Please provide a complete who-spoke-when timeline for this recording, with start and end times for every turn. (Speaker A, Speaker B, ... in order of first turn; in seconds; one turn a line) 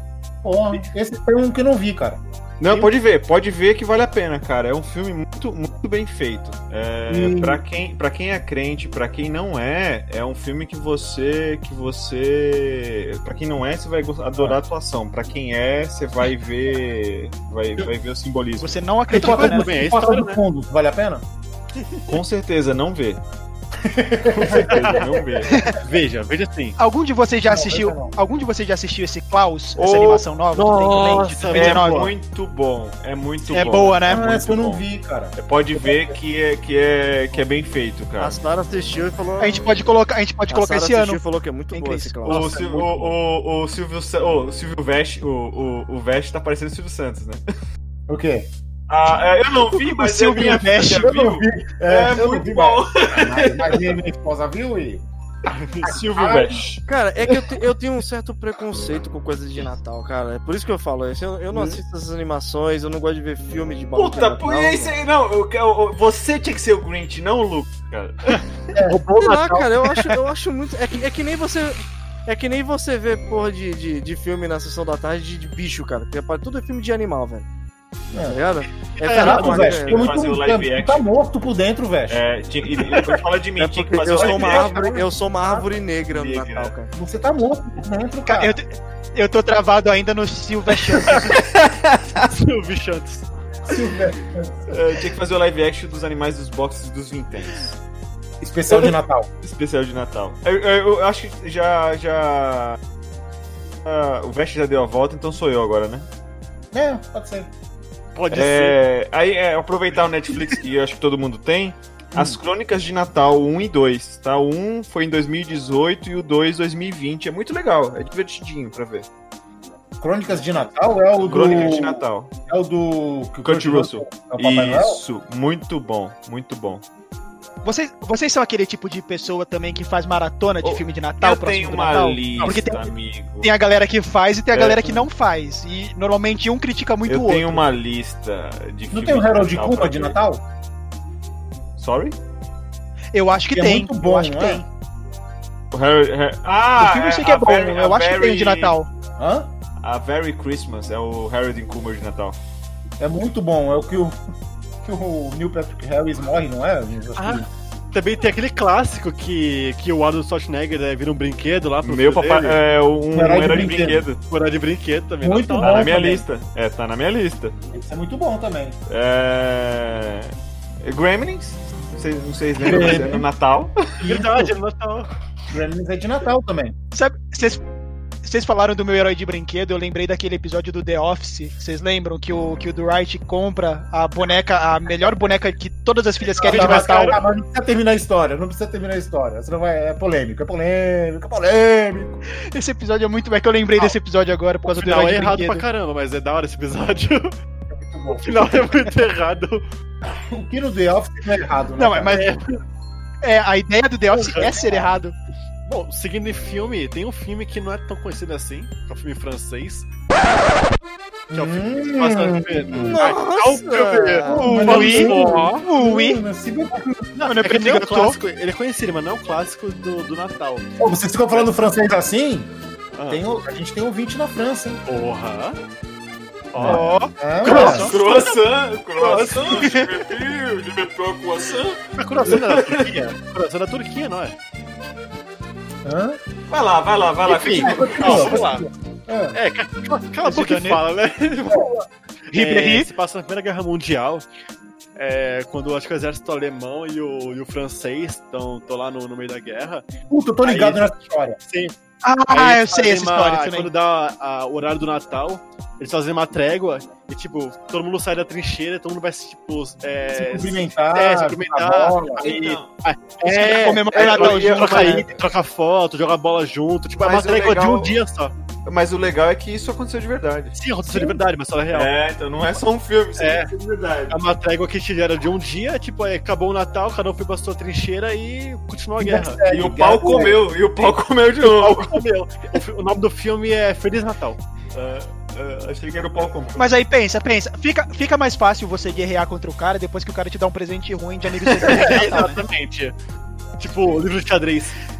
Speaker A: 0.4-2.9
Speaker B: 2.6-18.8
Speaker A: 7.1-7.6
Speaker C: 18.6-19.9
Speaker D: 19.1-20.4
Speaker A: 19.1-21.2
Speaker D: 21.8-22.1
Speaker B: 22.1-23.2
Speaker A: 23.8-25.4
Speaker B: 24.4-25.5
Speaker D: 24.4-25.1
Speaker D: 25.8-26.8
Speaker C: 26.8-32.1
Speaker A: 27.4-28.1
Speaker B: 29.8-30.3
Speaker D: 30.5-32.1
Speaker B: 31.5-38.4
Speaker C: 33.4-34.2
Speaker A: 34.1-36.1
Speaker E: 38.2-39.8
Speaker C: 39.4-41.2
Speaker E: 40.5-42.6
Speaker C: 41.7-42.2
Speaker B: 42.3-47.4
Speaker D: 42.3-43.1
Speaker A: 48.1-48.5
Speaker B: 48.9-53.9
Speaker C: 49.8-51.0
Speaker A: 51.0-55.0
Speaker D: 55.5-55.9
Speaker B: 55.8-56.8
Speaker A: 56.1-56.6
Speaker E: 56.9-64.9
Speaker B: 64.0-68.5
Speaker D: 68.3-69.9
Speaker A: 68.7-69.0
Speaker E: 69.2-77.5
Speaker A: 78.1-78.4
Speaker E: 78.3-80.2
Speaker D: 79.0-79.8
Speaker A: 79.1-82.2
Speaker B: 79.7-81.1
Speaker B: 82.1-84.9
Speaker E: 83.6-86.9
Speaker D: 84.1-84.7
Speaker A: 84.2-84.7
Speaker B: 86.1-86.7
Speaker A: 86.9-88.5
Speaker C: 88.3-91.3
Speaker D: 91.1-91.4
Speaker D: 92.3-93.3
Speaker A: 93.7-94.5
Speaker B: 94.7-97.8
Speaker A: 98.4-99.3
Speaker B: 98.7-102.8
Speaker B: 103.8-106.1
Speaker A: 106.7-107.5
Speaker D: 108.1-108.8
Speaker B: 108.3-119.1
Speaker A: 112.1-112.4
Speaker A: 120.0-125.0
Speaker B: 121.2-122.3
Speaker B: 123.4-126.8
Speaker C: 127.6-132.9
Speaker B: 130.6-133.5
Speaker C: 133.4-137.6
Speaker B: 134.5-135.0
Speaker B: 137.1-140.2
Speaker A: 138.9-140.4
Speaker B: 141.8-142.2
Speaker C: 143.1-144.7
Speaker A: 143.5-144.6
Speaker B: 145.7-148.8
Speaker C: 146.8-148.9
Speaker A: 149.2-149.5
Speaker B: 149.8-152.4
Speaker A: 153.0-154.2
Speaker A: 154.8-157.5
Speaker D: 157.2-162.6
Speaker B: 161.8-164.2
Speaker A: 163.1-164.1
Speaker D: 164.3-165.9
Speaker A: 165.2-166.2
Speaker B: 165.6-167.6
Speaker A: 167.7-168.8
Speaker B: 168.9-173.9
Speaker A: 172.6-173.2
Speaker D: 172.7-173.0
Speaker A: 174.0-174.5
Speaker D: 174.0-175.1
Speaker A: 175.5-176.8
Speaker C: 176.9-177.6
Speaker C: 178.2-187.1
Speaker A: 186.4-192.2
Speaker D: 186.4-187.2
Speaker C: 192.5-195.7
Speaker D: 194.6-197.3
Speaker A: 197.7-198.6
Speaker D: 198.2-199.6
Speaker A: 200.2-202.2
Speaker C: 201.8-202.3
Speaker D: 202.1-202.6
Speaker C: 203.2-205.2
Speaker D: 204.1-204.6
Speaker A: 204.4-204.9
Speaker D: 205.6-209.9
Speaker A: 211.3-213.0
Speaker D: 211.3-215.6
Speaker E: 212.8-214.4
Speaker A: 214.2-217.2
Speaker C: 214.4-216.2
Speaker C: 217.2-218.2
Speaker D: 217.3-220.7
Speaker A: 220.8-222.5
Speaker D: 222.9-223.3
Speaker A: 223.1-224.8
Speaker D: 224.8-225.6
Speaker D: 226.5-226.9
Speaker A: 226.6-227.9
Speaker C: 226.6-227.9
Speaker D: 227.4-227.9
Speaker B: 227.4-232.9
Speaker D: 228.9-229.8
Speaker D: 232.0-234.3
Speaker A: 235.8-236.2
Speaker B: 236.5-238.4
Speaker A: 237.2-239.4
Speaker D: 237.5-238.7
Speaker D: 239.3-241.7
Speaker C: 240.2-240.8
Speaker C: 242.3-242.9
Speaker D: 242.3-244.2
Speaker D: 244.9-249.8
Speaker A: 250.1-251.4
Speaker D: 250.4-250.8
Speaker D: 251.4-251.7
Speaker C: 252.0-253.7
Speaker D: 252.3-268.3
Speaker A: 260.1-262.3
Speaker B: 262.2-262.7
Speaker C: 263.2-265.1
Speaker B: 263.9-265.1
Speaker B: 267.0-268.0
Speaker B: 268.6-270.6
Speaker D: 270.5-271.9
Speaker B: 271.7-274.2
Speaker D: 273.2-273.5
Speaker D: 274.1-279.4
Speaker A: 279.0-280.4
Speaker B: 279.5-282.0
Speaker D: 280.8-284.4
Speaker B: 284.7-286.7
Speaker C: 286.6-292.3
Speaker D: 291.6-292.9
Speaker B: 291.8-292.4
Speaker D: 293.6-294.8